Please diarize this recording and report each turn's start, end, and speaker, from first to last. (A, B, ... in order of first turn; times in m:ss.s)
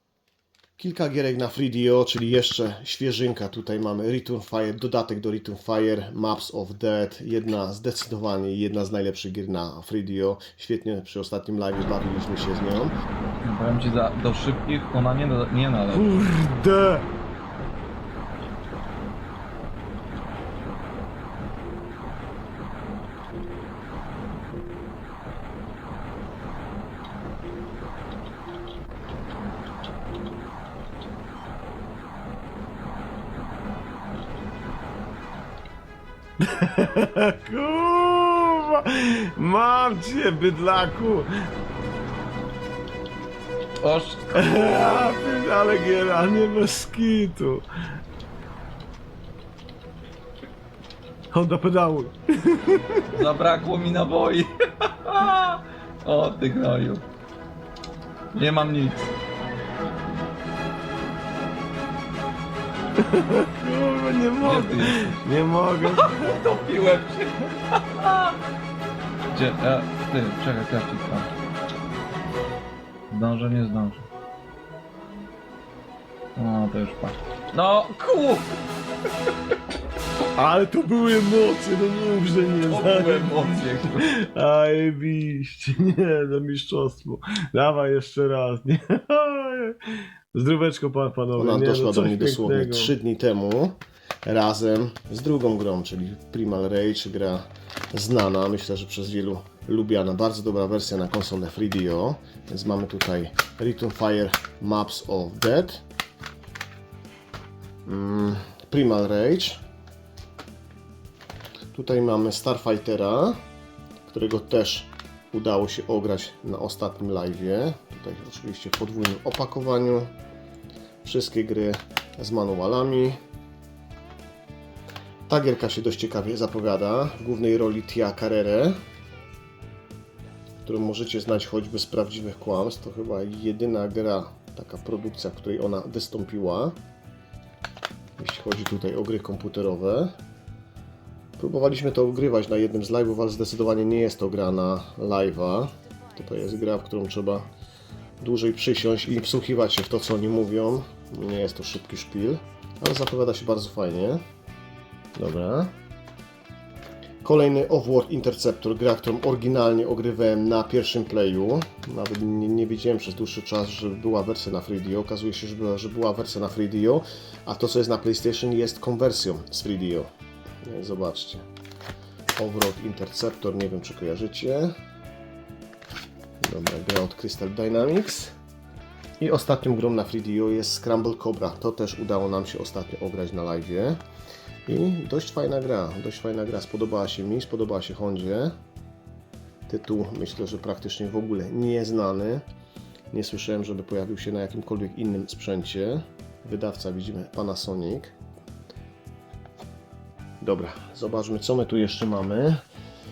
0:00.8-0:12.9 A
0:13.4-0:16.1 B
0:15.9-0:17.0 C
0:36.4-0:41.3 C
0:43.8-0:44.3 B
0:44.3-0:47.6 C
0:51.3-0:53.1 C
0:53.1-0:57.0 B
0:58.3-0:59.0 B
1:03.0-1:06.4 C
1:04.4-1:05.2 B
1:05.8-1:08.4 B
1:09.3-1:11.3 B
1:13.1-1:14.1 B
1:16.4-1:18.5 B
1:20.4-1:29.7 C
1:22.7-1:24.1 B
1:30.3-1:32.9 C
1:31.4-1:45.8 A
1:47.9-1:49.6 A
1:51.7-1:53.4 A
1:54.0-2:00.1 A
2:01.0-2:03.2 A
2:05.3-2:08.8 A
2:10.6-2:16.8 A
2:18.2-2:20.1 A
2:21.4-2:27.5 A
2:28.2-2:34.2 A
2:35.2-2:35.7 A
2:37.2-2:50.1 A
2:50.6-2:51.4 A
2:52.4-2:54.7 A
2:56.4-2:58.3 A
2:59.2-3:04.0 A
3:04.7-3:08.5 A
3:09.7-3:12.4 A
3:13.1-3:18.1 A
3:20.4-3:22.6 A